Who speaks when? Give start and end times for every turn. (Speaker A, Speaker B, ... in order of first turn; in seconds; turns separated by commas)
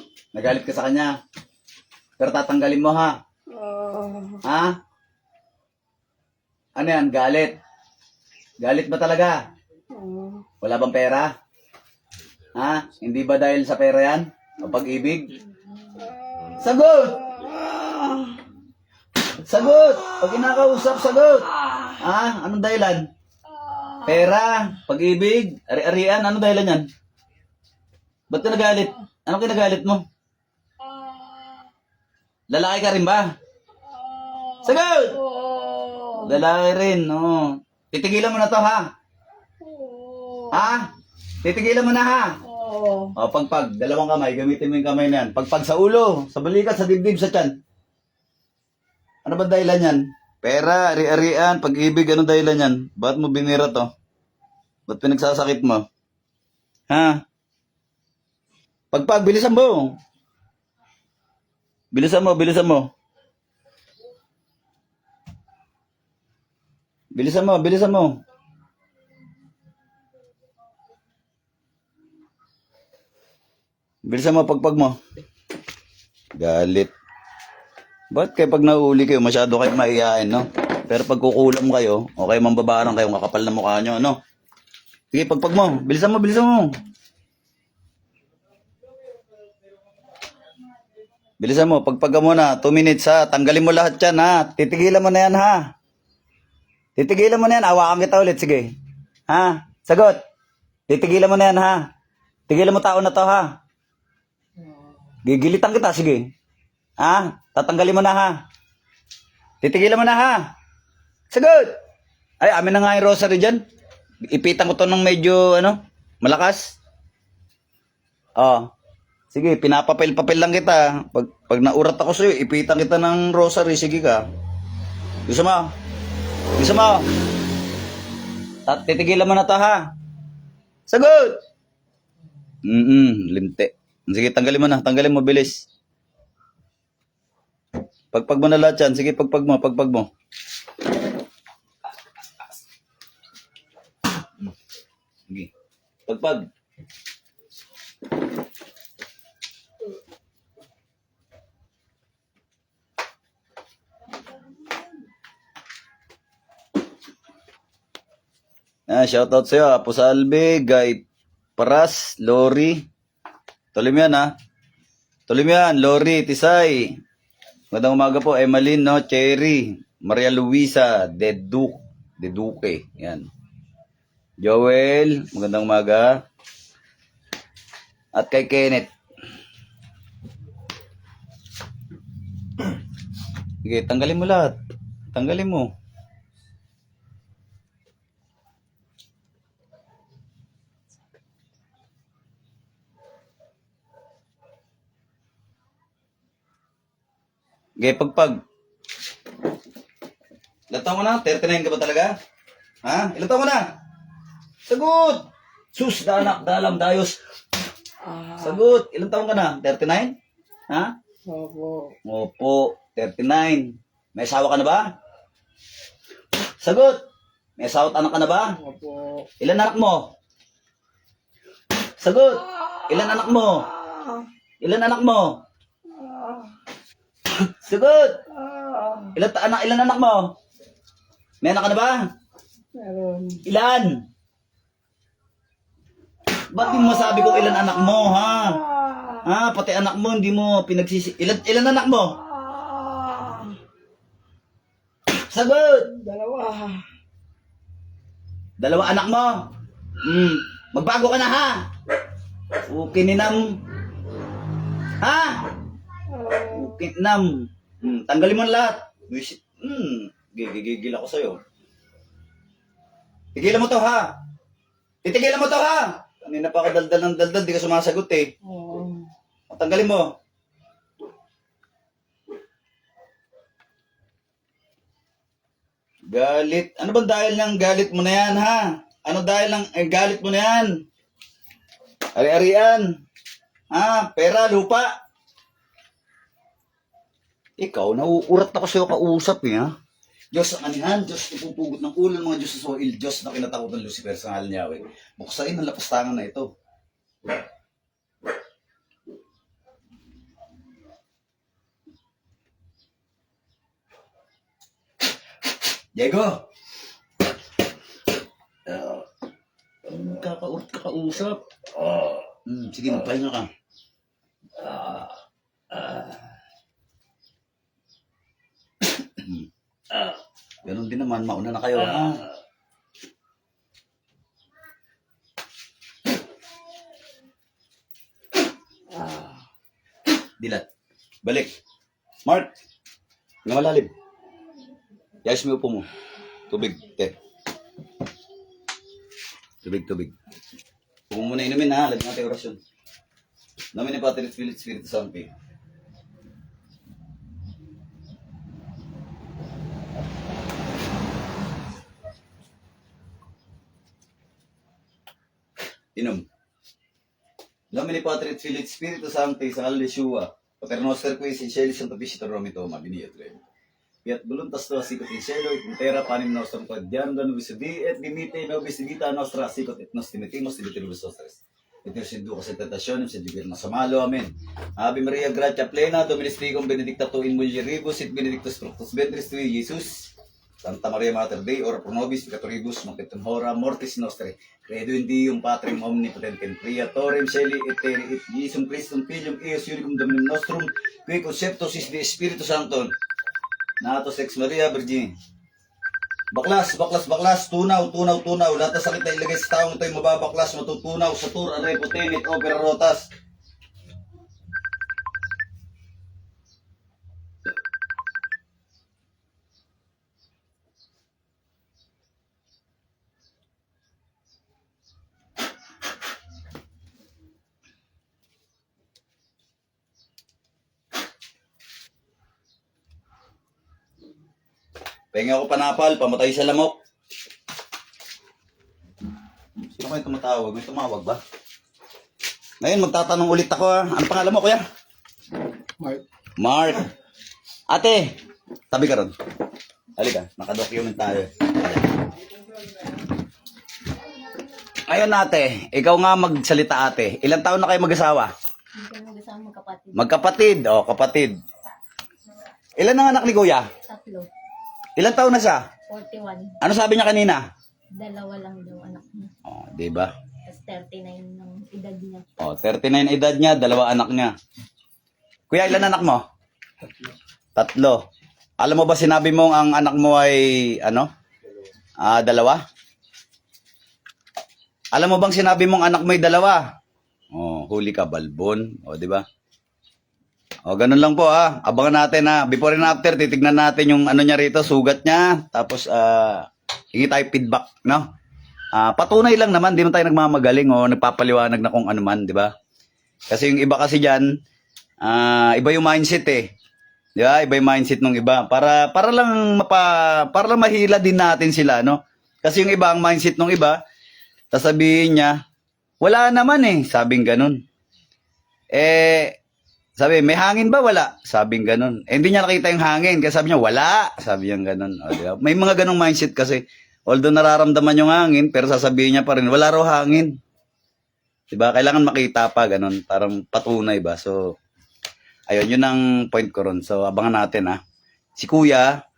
Speaker A: 0.3-1.1, Speaker A: 2.2-3.1, Speaker B: 3.5-4.4, Speaker A: 4.4-4.8, Speaker A: 6.8-7.5, Speaker A: 8.6-9.4, Speaker B: 9.9-10.4, Speaker A: 10.6-11.3, Speaker A: 12.6-15.3, Speaker B: 16.0-16.6, Speaker A: 16.6-17.2, Speaker B: 17.2-18.4, Speaker A: 19.4-21.5, Speaker A: 22.0-23.1, Speaker B: 23.6-24.2, Speaker A: 24.1-26.9, Speaker A: 28.3-30.0, Speaker B: 30.8-31.7, Speaker A: 32.5-33.3, Speaker B: 33.8-36.4, Speaker A: 34.6-35.2, Speaker A: 36.2-38.9, Speaker B: 39.6-40.8, Speaker A: 40.5-40.9, Speaker A: 41.4-42.4, Speaker B: 42.4-43.1, Speaker A: 43.2-47.5, Speaker A: 49.2-53.9, Speaker A: 54.9-55.9, Speaker A: 56.9-57.2, Speaker A: 58.9-60.0, Speaker A: 61.9-62.9, Speaker A: 67.1-68.2, Speaker A: 74.0-75.0, Speaker A: 76.3-76.9, Speaker A: 78.1-84.2, Speaker A: 85.1-86.7, Speaker A: 91.4-95.6, Speaker A: 97.0-98.7, Speaker A: 99.3-100.2, Speaker A: 100.9-101.8, Speaker A: 102.5-103.5, Speaker A: 105.2-106.3, Speaker A: 107.0-108.4, Speaker A: 109.6-110.5, Speaker A: 111.3-111.8, Speaker A: 112.4-113.6, Speaker A: 114.3-116.8, Speaker A: 118.4-118.7, Speaker A: 119.3-124.2, Speaker A: 125.3-125.7, Speaker A: 126.6-127.0, Speaker A: 128.7-129.9, Speaker A: 130.9-131.4, Speaker A: 132.6-135.6, Speaker A: 138.1-140.1, Speaker A: 146.1-146.4, Speaker A: 158.9-161.0, Speaker A: 161.6-162.8, Speaker A: 163.7-164.3, Speaker A: 165.3-167.0, Speaker A: 167.7-173.3, Speaker A: 174.4-176.2, Speaker A: 178.1-178.9, Speaker A: 183.6-184.6, Speaker A: 185.1-185.7, Speaker A: 197.8-198.4, Speaker A: 200.7-202.1, Speaker A: 202.8-203.7, Speaker A: 204.7-207.2, Speaker B: 208.0-208.7, Speaker A: 208.4-210.1, Speaker B: 211.2-211.9, Speaker A: 212.1-214.9, Speaker A: 216.6-217.0, Speaker A: 217.6-218.5, Speaker B: 218.5-219.3, Speaker A: 219.4-220.1, Speaker A: 222.0-223.7, Speaker B: 223.7-224.3, Speaker A: 224.6-225.4, Speaker B: 225.8-226.6, Speaker A: 227.4-228.2, Speaker B: 228.3-229.2, Speaker A: 229.1-230.3, Speaker A: 231.4-232.1, Speaker B: 232.7-233.4, Speaker A: 233.4-234.0, Speaker A: 236.5-238.6, Speaker B: 236.8-239.2, Speaker A: 239.2-242.2, Speaker B: 242.2-243.6, Speaker A: 245.2-245.9, Speaker B: 245.9-246.8, Speaker A: 248.6-249.4, Speaker A: 250.0-251.7, Speaker A: 252.7-253.6, Speaker A: 255.0-255.4, Speaker B: 256.1-256.8, Speaker A: 256.5-261.4, Speaker A: 263.3-264.1, Speaker A: 265.0-268.3, Speaker B: 268.4-269.1, Speaker A: 269.5-270.1, Speaker A: 276.1-280.8, Speaker A: 282.1-282.9, Speaker A: 283.7-284.9, Speaker A: 287.6-289.7, Speaker A: 290.3-296.5, Speaker A: 305.9-306.4, Speaker A: 308.7-309.0, Speaker A: 309.9-311.4, Speaker A: 312.4-313.5, Speaker A: 319.0-319.5, Speaker A: 320.6-322.2, Speaker B: 328.9-329.4, Speaker A: 330.4-330.6, Speaker A: 331.2-331.5, Speaker A: 332.2-332.5, Speaker A: 333.4-333.9, Speaker A: 335.2-335.9, Speaker A: 336.5-337.1, Speaker A: 339.6-340.1, Speaker A: 341.1-342.6, Speaker A: 343.7-345.3, Speaker A: 355.9-356.2, Speaker A: 357.7-363.4, Speaker A: 364.0-392.9, Speaker A: 393.8-395.1, Speaker A: 396.3-403.1, Speaker A: 425.1-426.8, Speaker A: 429.8-431.2, Speaker A: 432.6-434.6, Speaker A: 436.4-436.9, Speaker A: 437.7-438.1, Speaker A: 438.7-439.1, Speaker A: 440.0-441.5, Speaker A: 444.9-448.3, Speaker C: 448.7-450.4, Speaker A: 449.9-451.4, Speaker A: 452.8-453.7, Speaker C: 453.8-454.3, Speaker A: 455.0-455.6, Speaker C: 455.9-456.6, Speaker A: 456.6-457.4, Speaker C: 457.9-459.3, Speaker A: 459.4-460.1, Speaker C: 460.4-462.2, Speaker A: 462.4-464.3, Speaker A: 465.5-466.2, Speaker A: 467.6-468.0, Speaker A: 468.6-471.1, Speaker A: 472.0-472.6, Speaker A: 474.9-476.6, Speaker A: 477.3-479.2, Speaker A: 480.7-488.1, Speaker A: 488.7-492.5, Speaker A: 493.3-494.3, Speaker A: 495.0-496.5, Speaker A: 497.1-503.8, Speaker A: 504.5-505.4, Speaker A: 506.0-507.6, Speaker A: 508.7-509.4, Speaker A: 510.0-520.4, Speaker A: 521.5-524.6, Speaker A: 525.5-527.8, Speaker A: 528.4-529.0